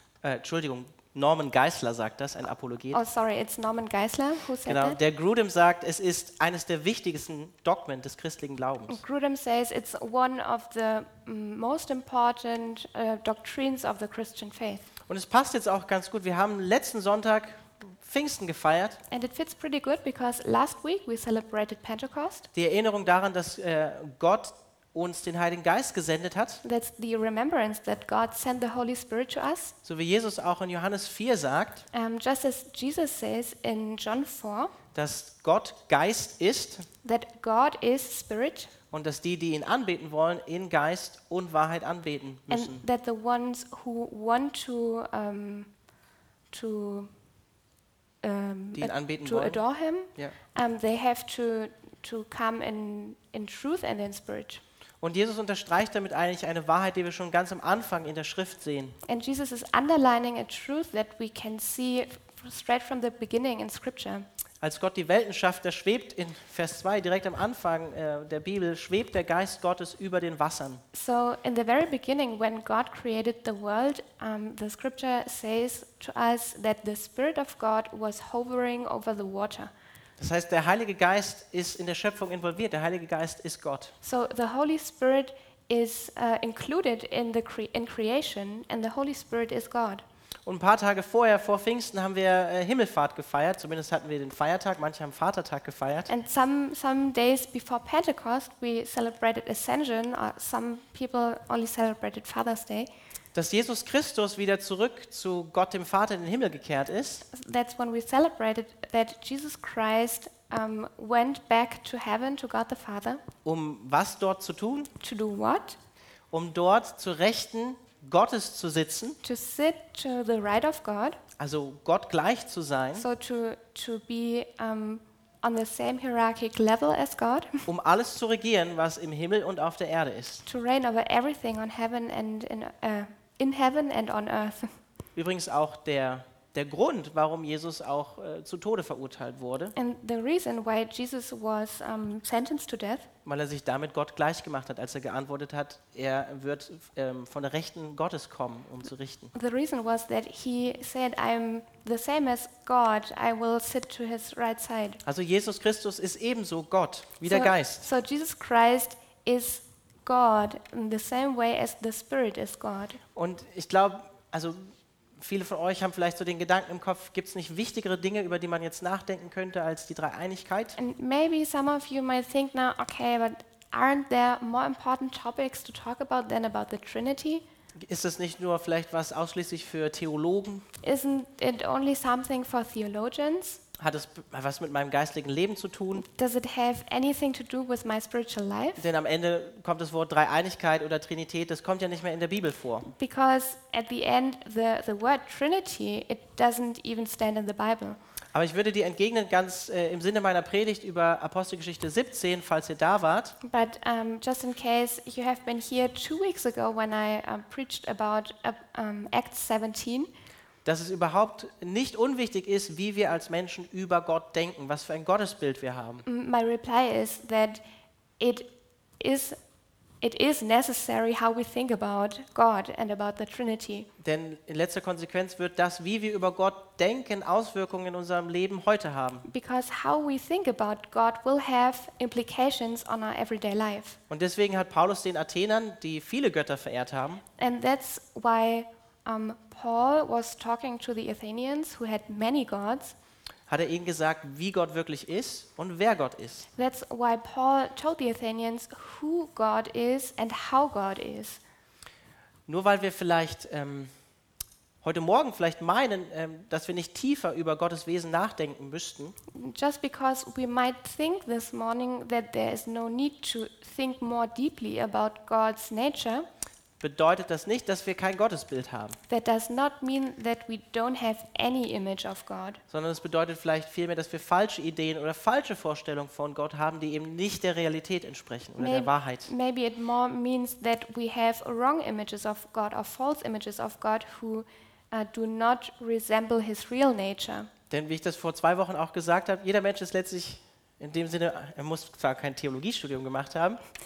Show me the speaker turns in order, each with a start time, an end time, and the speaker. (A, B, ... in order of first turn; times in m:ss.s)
0:00.2-0:03.0 A
0:02.9-0:05.0 B
0:04.7-0:09.0 A
0:08.9-0:14.9 B
0:15.1-0:19.0 A
0:19.1-0:22.5 B
0:22.5-0:26.6 A
0:26.6-0:29.8 B
0:29.8-0:31.9 A
0:31.9-0:34.7 B
0:34.9-0:36.9 A
0:37.0-0:38.7 B
0:38.9-0:42.8 A
0:42.5-0:45.7 B
0:46.5-0:47.1 B
0:48.2-0:54.6 B
0:48.8-0:49.6 A
0:55.0-0:59.0 A
0:59.1-1:04.3 B
1:04.6-1:10.8 A
1:10.9-1:19.7 B
1:20.2-1:23.9 A
1:24.0-1:30.0 B
1:30.5-1:36.1 A
1:36.1-1:42.9 B
1:43.3-1:47.2 A
1:47.3-1:53.2 B
1:53.4-1:54.9 A
1:55.0-1:55.8 B
1:56.3-1:59.2 A
1:59.2-2:01.2 B
2:01.4-2:03.0 A
2:03.0-2:07.7 B
2:07.7-2:10.4 A
2:10.5-2:14.8 B
2:15.2-2:19.7 A
2:19.8-2:23.1 B
2:23.2-2:29.3 A
2:29.3-2:35.0 B
2:35.0-2:37.9 A
2:37.3-2:43.0 B
2:43.2-2:50.8 A
2:50.8-2:57.4 B
2:57.8-3:00.7 A
3:00.8-3:03.6 B
3:03.8-3:06.0 A
3:06.0-3:08.9 B
3:08.8-3:12.9 A
3:12.9-3:18.0 B
3:18.3-3:23.4 A
3:23.4-3:30.1 B
3:30.6-3:36.0 A
3:36.0-3:37.6 B
3:38.2-3:38.5 B
3:39.0-3:39.4 B
3:40.0-3:43.9 B
3:44.0-3:49.3 A
3:49.2-3:54.0 B
3:54.1-3:57.2 A
3:57.4-4:03.0 B
4:03.5-4:06.5 A
4:06.6-4:11.4 B
4:12.5-4:13.9 A
4:14.8-4:19.2 A
4:19.3-4:26.3 B
4:26.8-4:29.0 A
4:29.1-4:32.6 B
4:32.7-4:39.3 A
4:38.6-4:47.5 B
4:47.7-4:53.6 A